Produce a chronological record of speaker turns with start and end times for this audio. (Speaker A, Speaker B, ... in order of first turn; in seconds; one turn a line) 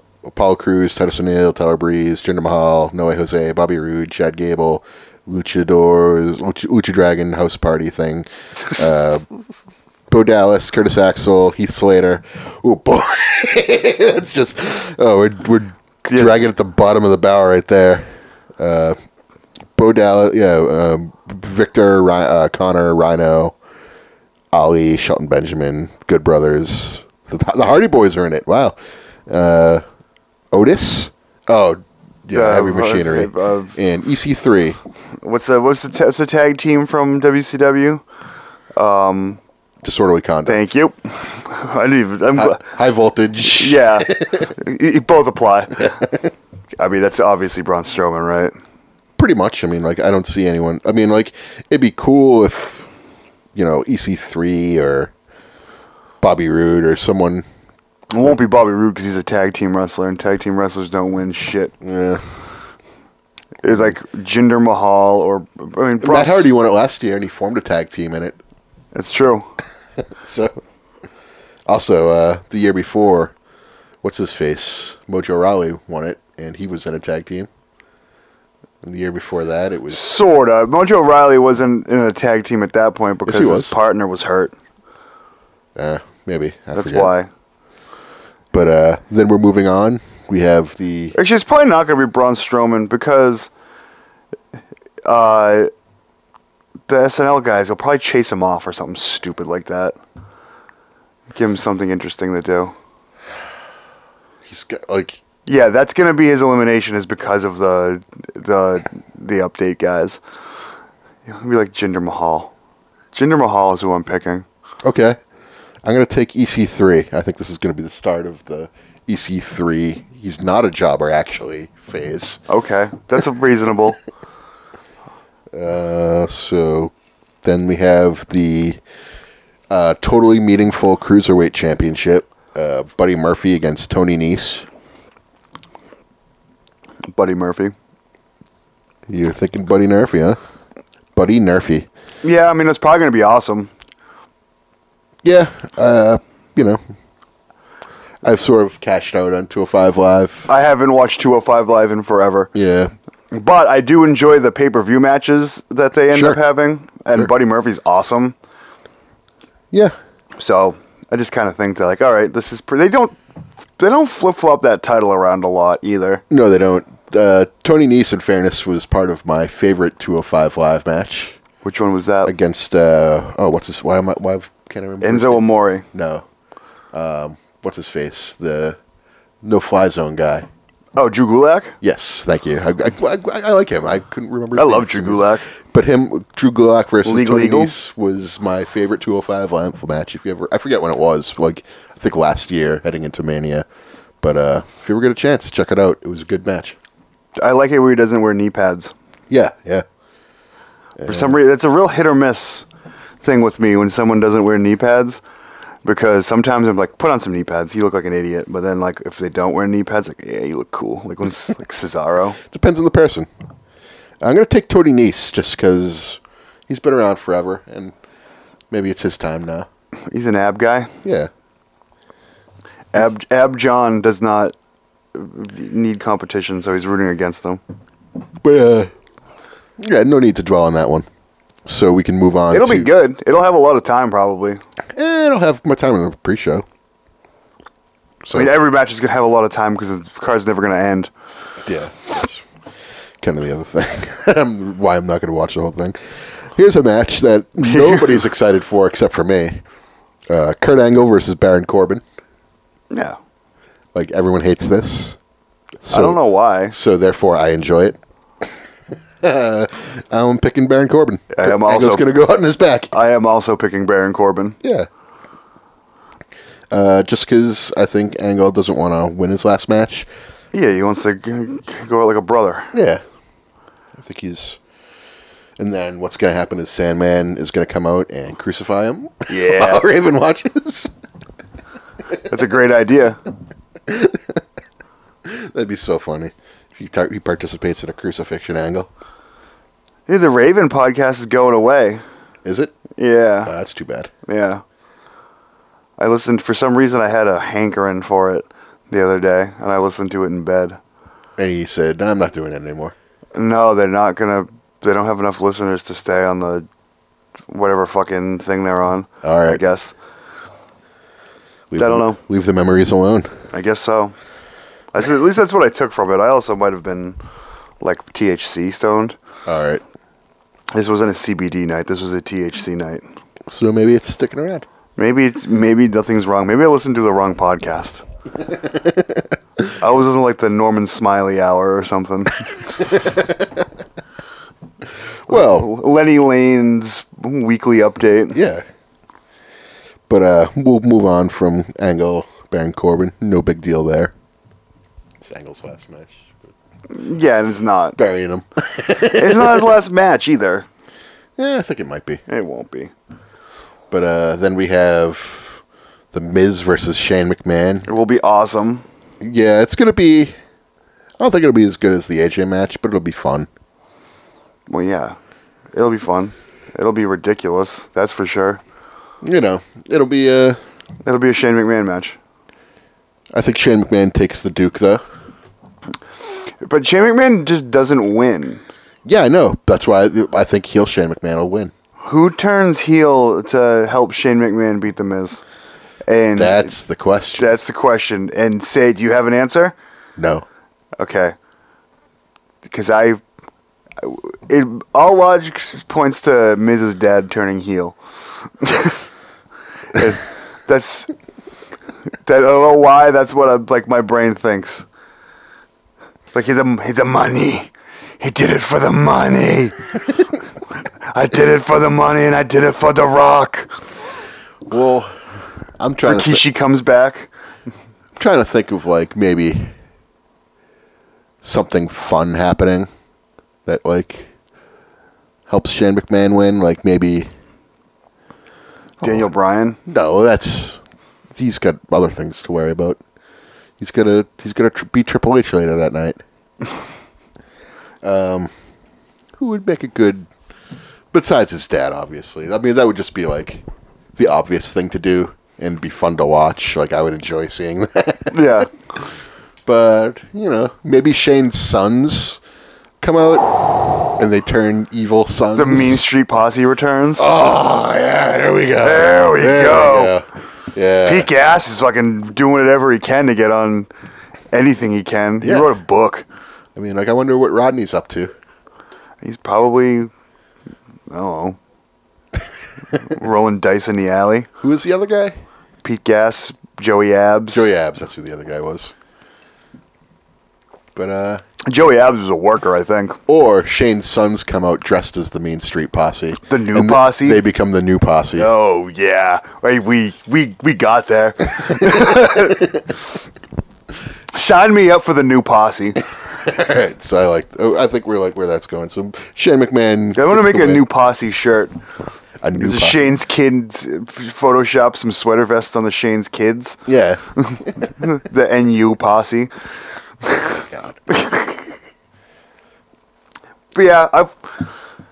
Speaker A: 0.2-9.2
Speaker A: 10.1-18.1
Speaker B: 16.0-16.3
Speaker A: 18.6-19.0
Speaker A: 19.8-23.6
Speaker A: 24.5-28.8
Speaker A: 29.3-29.8
Speaker A: 30.5-34.8
Speaker B: 32.3-33.8
Speaker B: 35.2-38.0
Speaker B: 38.8-39.4
Speaker A: 39.8-40.6
Speaker B: 40.5-42.6
Speaker A: 42.4-44.5
Speaker B: 43.4-46.0
Speaker A: 45.8-46.2
Speaker B: 46.8-48.5
Speaker A: 49.2-52.9
Speaker A: 53.5-55.1
Speaker A: 56.2-57.4
Speaker B: 58.1-61.7
Speaker A: 61.8-62.3
Speaker B: 63.6-66.5
Speaker A: 66.0-68.4
Speaker B: 68.9-69.5
Speaker A: 70.1-70.6
Speaker A: 71.7-73.3
Speaker A: 74.0-77.5
Speaker A: 78.8-80.0
Speaker B: 79.9-84.5
Speaker A: 83.2-83.7
Speaker A: 85.8-87.1
Speaker B: 86.7-87.3
Speaker A: 88.5-91.1
Speaker B: 91.1-93.5
Speaker B: 95.0-95.7
Speaker B: 96.9-100.0
Speaker B: 101.3-102.7
Speaker A: 104.4-105.2
Speaker B: 105.5-110.2
Speaker B: 111.2-112.5
Speaker B: 113.1-114.5
Speaker A: 114.8-115.2
Speaker A: 115.8-122.4
Speaker B: 122.5-124.0
Speaker A: 125.5-128.8
Speaker A: 129.7-134.7
Speaker B: 137.1-137.7
Speaker A: 139.1-140.4
Speaker A: 141.1-141.9
Speaker B: 142.2-143.7
Speaker A: 145.2-146.8
Speaker A: 148.2-150.5
Speaker B: 150.5-152.5
Speaker A: 152.5-152.9
Speaker B: 153.3-158.3
Speaker A: 156.1-156.4
Speaker B: 160.4-163.2
Speaker B: 163.8-166.2
Speaker A: 166.3-171.4
Speaker B: 171.6-172.3
Speaker A: 172.2-176.2
Speaker B: 175.0-175.8
Speaker A: 176.9-178.8
Speaker A: 179.4-180.4
Speaker B: 180.9-181.8
Speaker A: 181.8-193.7
Speaker B: 184.5-185.4
Speaker B: 187.0-187.7
Speaker A: 194.2-196.8
Speaker B: 197.4-198.9
Speaker A: 199.3-199.8
Speaker A: 201.0-201.4
Speaker B: 201.0-202.7
Speaker B: 203.2-205.2
Speaker B: 205.8-212.4
Speaker A: 212.4-213.3
Speaker A: 214.2-217.9
Speaker A: 218.7-219.7
Speaker B: 220.1-220.9
Speaker A: 221.0-221.3
Speaker B: 222.9-224.5
Speaker B: 225.1-227.6
Speaker A: 228.4-228.9
Speaker A: 229.8-231.1
Speaker A: 231.7-232.9
Speaker B: 232.5-234.6
Speaker A: 234.9-236.7
Speaker A: 238.2-238.6
Speaker B: 238.3-241.1
Speaker A: 241.6-242.4
Speaker A: 243.2-245.9
Speaker A: 246.5-249.6
Speaker B: 247.7-248.2
Speaker A: 250.3-252.0
Speaker B: 252.9-253.2
Speaker A: 253.9-255.2
Speaker A: 255.8-258.5
Speaker B: 255.9-256.8
Speaker A: 259.2-262.9
Speaker B: 261.3-262.1
Speaker B: 262.9-264.6
Speaker A: 264.6-264.9
Speaker A: 266.7-270.1
Speaker B: 270.5-272.7
Speaker A: 272.7-273.0
Speaker A: 273.9-274.6
Speaker A: 275.6-280.9
Speaker B: 279.3-279.9
Speaker B: 282.3-283.2
Speaker A: 283.9-284.4
Speaker A: 285.2-288.9
Speaker B: 290.1-292.0
Speaker A: 292.4-292.8
Speaker B: 292.9-293.5
Speaker A: 293.4-294.1
Speaker B: 294.2-294.6
Speaker B: 296.0-300.8
Speaker A: 301.4-302.9
Speaker B: 303.3-306.7
Speaker B: 307.5-309.9
Speaker A: 309.2-309.6
Speaker A: 311.7-313.4
Speaker B: 311.8-312.2
Speaker B: 313.5-314.1
Speaker B: 314.9-317.2
Speaker B: 317.8-319.2
Speaker A: 319.4-319.8
Speaker B: 320.7-323.1
Speaker A: 323.5-324.6
Speaker B: 325.0-328.0
Speaker A: 328.5-329.2
Speaker B: 329.8-333.2
Speaker A: 333.0-333.4
Speaker A: 335.3-335.7
Speaker B: 335.3-338.4
Speaker A: 338.3-338.6
Speaker A: 340.1-344.1
Speaker A: 345.2-346.3
Speaker B: 346.9-348.0
Speaker A: 347.9-349.8
Speaker B: 349.1-350.7
Speaker A: 351.4-352.2
Speaker B: 352.3-352.9
Speaker A: 353.9-355.6
Speaker A: 356.1-357.9
Speaker B: 357.9-358.8
Speaker A: 359.2-360.3
Speaker A: 361.2-363.5
Speaker B: 364.7-365.2
Speaker B: 365.7-368.6
Speaker A: 369.2-370.6
Speaker B: 371.0-372.2
Speaker A: 373.3-375.0
Speaker B: 376.6-378.6
Speaker A: 379.0-381.7
Speaker B: 382.0-385.4
Speaker B: 386.1-386.7
Speaker A: 386.4-387.5
Speaker B: 387.4-389.7
Speaker A: 390.2-390.4
Speaker B: 391.0-391.3
Speaker B: 392.7-393.2
Speaker B: 394.0-397.9
Speaker B: 398.6-399.0
Speaker B: 399.9-401.1
Speaker B: 402.2-404.9
Speaker B: 406.3-410.1
Speaker B: 411.0-413.8
Speaker A: 414.6-415.1
Speaker A: 415.8-416.4
Speaker B: 416.0-417.3
Speaker A: 418.2-419.7
Speaker A: 421.4-422.9
Speaker A: 423.6-424.3
Speaker A: 425.5-427.3
Speaker B: 429.0-429.8
Speaker A: 429.0-429.3
Speaker A: 429.9-430.8
Speaker A: 431.3-433.0
Speaker A: 433.8-436.2
Speaker A: 438.0-438.5
Speaker A: 439.4-440.3
Speaker A: 441.1-443.6
Speaker A: 444.1-449.1
Speaker B: 448.3-448.7
Speaker A: 449.6-452.4
Speaker A: 453.0-456.0
Speaker B: 455.5-457.2
Speaker A: 457.2-461.3
Speaker B: 458.8-460.1
Speaker B: 461.0-463.9
Speaker B: 464.5-466.2
Speaker A: 465.4-465.7
Speaker A: 466.8-468.3
Speaker B: 469.2-470.1
Speaker B: 471.1-471.6
Speaker B: 473.0-474.5
Speaker A: 474.6-475.4
Speaker B: 475.8-477.7
Speaker A: 477.5-478.9
Speaker A: 480.9-481.4
Speaker B: 481.6-483.2
Speaker A: 483.3-488.5
Speaker B: 486.5-487.4
Speaker B: 488.4-492.8
Speaker B: 494.3-496.0
Speaker A: 496.3-500.9
Speaker B: 500.1-501.8
Speaker A: 502.4-503.1
Speaker B: 502.6-506.8
Speaker A: 506.9-507.9
Speaker B: 507.4-509.5
Speaker B: 510.2-511.7
Speaker A: 510.7-510.9
Speaker B: 513.7-514.6